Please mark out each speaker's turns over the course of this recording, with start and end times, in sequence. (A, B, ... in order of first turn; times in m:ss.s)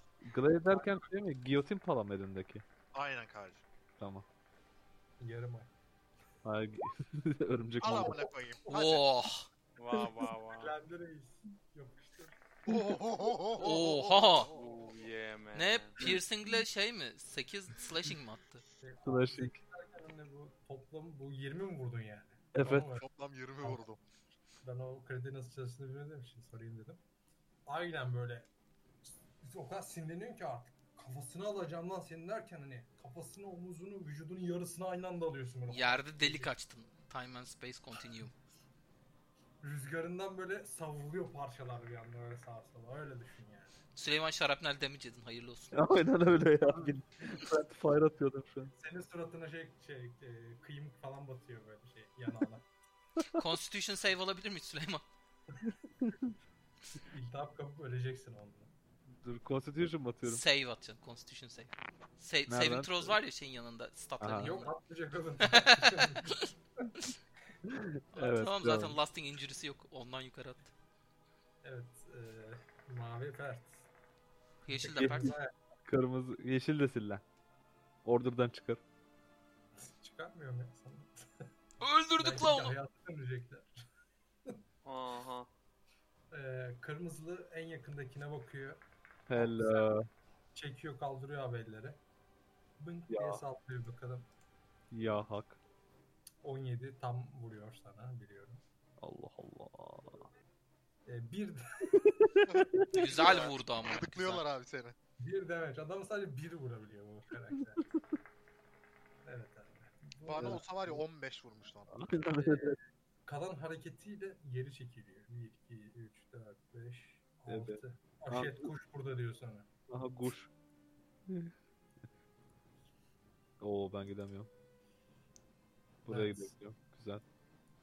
0:00.2-0:02.6 A
0:00.7-0:01.0 B
0:02.9-0:03.6 C
0:04.0-0:04.2 A
0:05.2-0:05.7 B
0:06.4-0:08.2 A
0:07.8-0:09.0 C
0:08.7-0:09.5 D
0:09.8-0:10.7 E
0:10.5-0:12.6 B
0:12.7-0:13.9 C
0:13.6-0:14.5 D
0:14.4-0:16.0 E
0:15.5-0:18.6 D
0:18.8-0:23.0 B
0:19.0-0:19.6 A
0:22.5-0:22.9 A
0:22.9-0:24.0 C
0:24.6-0:27.0 B
0:27.7-0:28.5 B
0:29.4-0:36.5 B
0:35.7-0:38.3 D
0:39.6-0:43.8 B
0:43.9-0:45.8 D
0:45.7-0:48.7 A
0:48.8-0:52.6 B
0:53.4-0:55.0 D
0:57.1-0:58.7 B
0:59.2-1:00.4 A
1:00.2-1:04.7 D
1:02.5-1:03.2 A
1:04.2-1:04.5 A
1:04.4-1:06.5 B
1:05.4-1:06.4 D
1:07.7-1:09.0 A
1:08.2-1:10.7 D
1:11.6-1:13.8 B
1:14.6-1:15.3 D
1:14.7-1:15.5 B
1:15.0-1:15.3 A
1:15.8-1:17.2 A
1:18.0-1:18.8 A
1:19.8-1:21.1 B
1:21.8-1:22.7 D
1:22.2-1:23.7 B
1:24.8-1:25.5 E
1:26.3-1:28.8 B
1:29.3-1:30.0 A
1:29.3-1:29.9 B
1:30.5-1:32.0 B
1:32.8-1:34.3 B
1:33.1-1:33.4 A
1:34.9-1:35.6 A
1:36.4-1:38.6 B
1:39.0-1:40.3 A
1:41.0-1:42.2 B
1:42.3-1:43.0 A
1:42.5-1:44.9 C
1:42.9-1:44.4 D
1:45.2-1:47.8 B
1:49.2-1:51.0 B
1:50.2-1:52.0 C
1:50.4-1:50.6 A
1:51.9-1:52.8 A
1:52.4-1:59.7 B
1:57.5-1:58.7 A
1:59.9-2:00.5 A
2:03.6-2:04.5 A
2:06.0-2:07.2 A
2:06.1-2:06.5 B